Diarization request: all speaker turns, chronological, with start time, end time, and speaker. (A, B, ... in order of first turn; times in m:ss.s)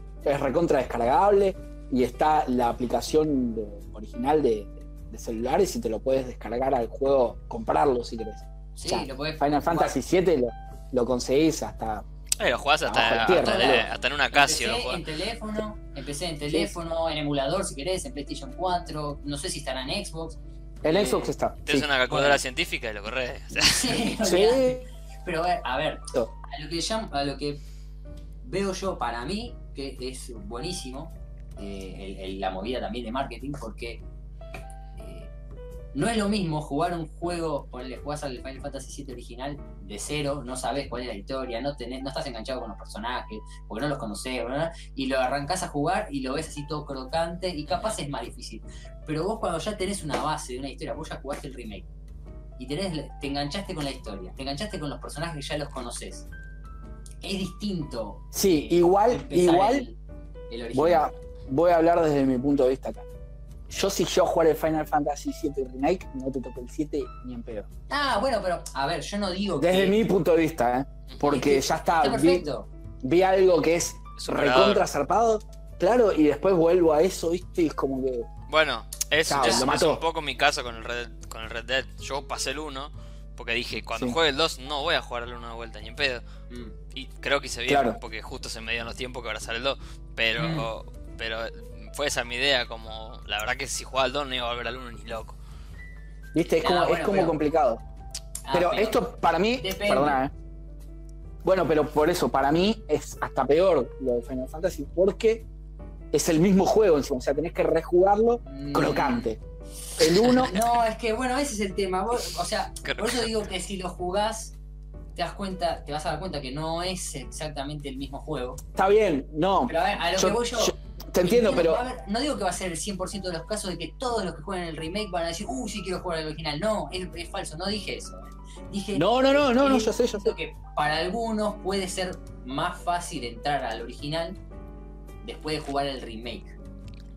0:00.2-0:12.0 A
0:08.8-0:10.0 B
0:12.4-0:15.0 C
0:12.9-0:13.9 A
0:13.3-0:21.3 B
0:20.8-0:21.9 A
0:21.7-0:24.0 C
0:22.1-0:22.4 B
0:23.6-0:27.6 B
0:24.2-0:24.8 A
0:28.4-0:34.0 B
0:35.0-0:35.3 B
0:35.9-0:51.9 B
0:47.7-0:48.0 C
0:52.6-0:56.3 B
0:57.2-1:00.0 B
0:58.3-0:59.8 A
1:00.5-1:01.1 B
1:00.7-1:03.0 A
1:03.7-1:07.7 A
1:07.9-1:10.0 B
1:09.6-1:12.4 A
1:11.2-1:12.7 B
1:13.0-1:18.3 A
1:14.2-1:14.8 C
1:18.5-1:26.2 C
1:19.3-1:20.0 A
1:19.4-1:19.7 B
1:23.9-1:24.2 A
1:26.5-1:26.8 B
1:26.9-1:35.4 C
1:27.7-1:28.0 A
1:30.4-1:30.7 B
1:36.3-1:37.8 A
1:36.6-1:37.4 B
1:38.4-1:39.0 B
1:38.5-1:40.3 A
1:39.6-1:40.2 B
1:41.4-1:45.4 A
1:46.1-1:49.4 A
1:48.4-1:49.4 B
1:50.0-1:50.6 A
1:50.2-1:50.6 C
1:50.3-1:54.6 B
1:52.8-1:53.5 C
1:55.2-1:58.6 B
1:58.8-2:01.8 A
1:59.7-2:14.4 B
2:08.9-2:10.4 A
2:15.2-2:16.6 B